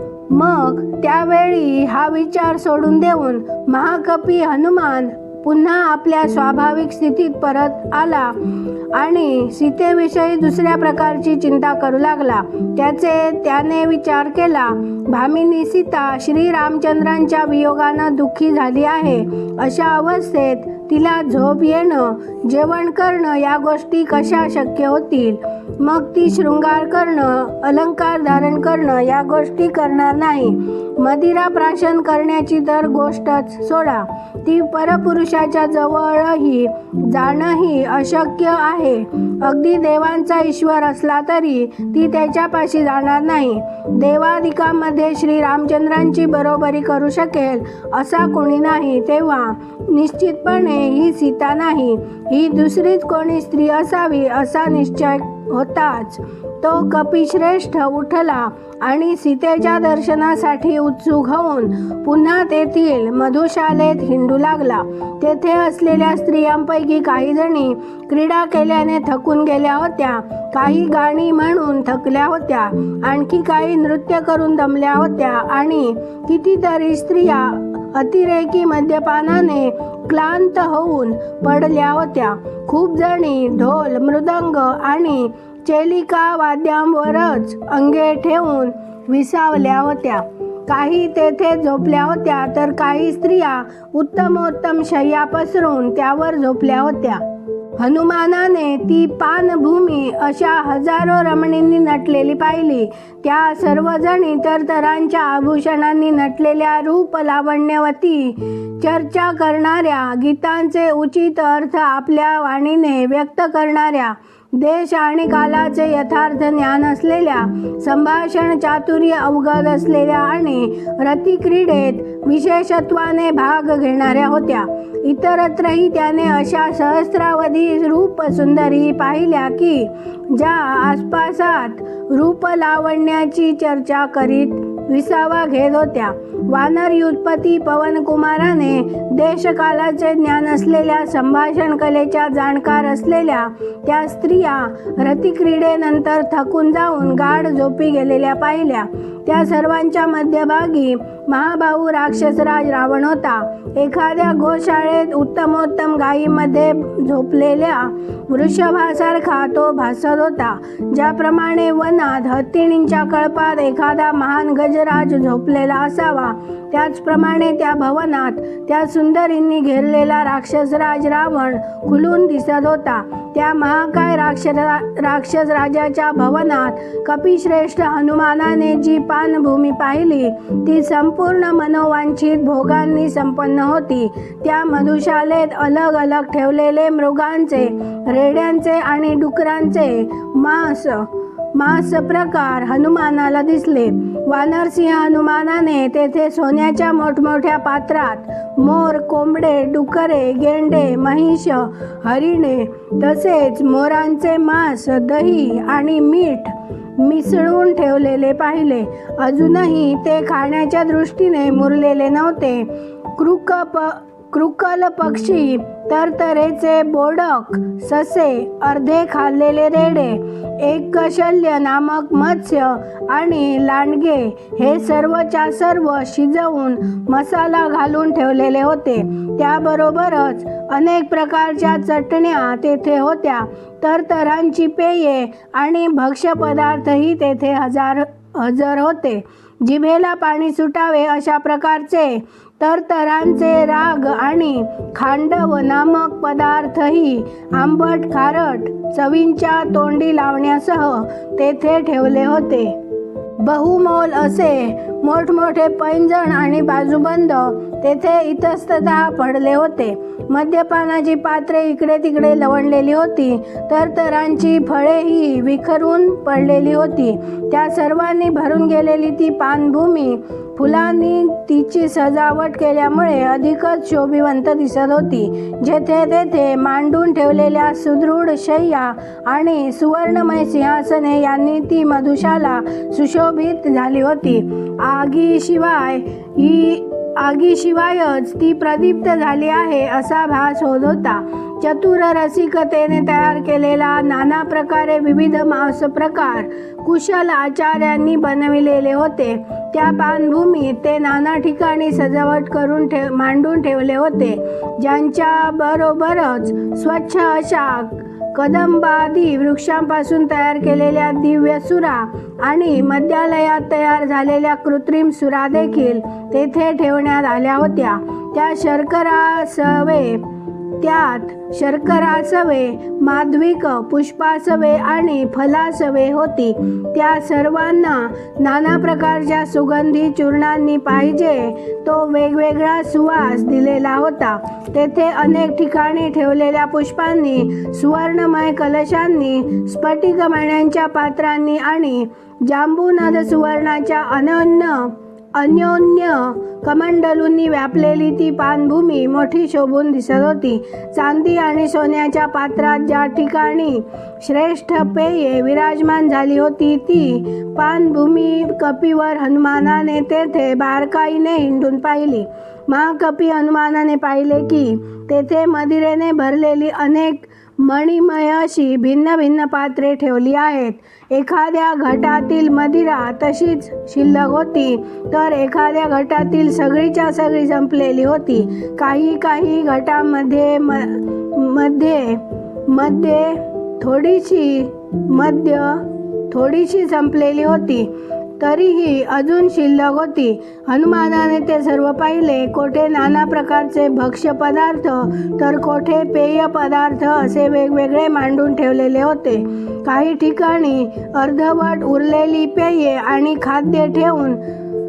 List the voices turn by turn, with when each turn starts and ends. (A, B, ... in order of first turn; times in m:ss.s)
0:00.3-1:37.2 A
1:37.8-4:12.8 A
4:13.4-5:20.2 A
5:20.8-6:44.4 A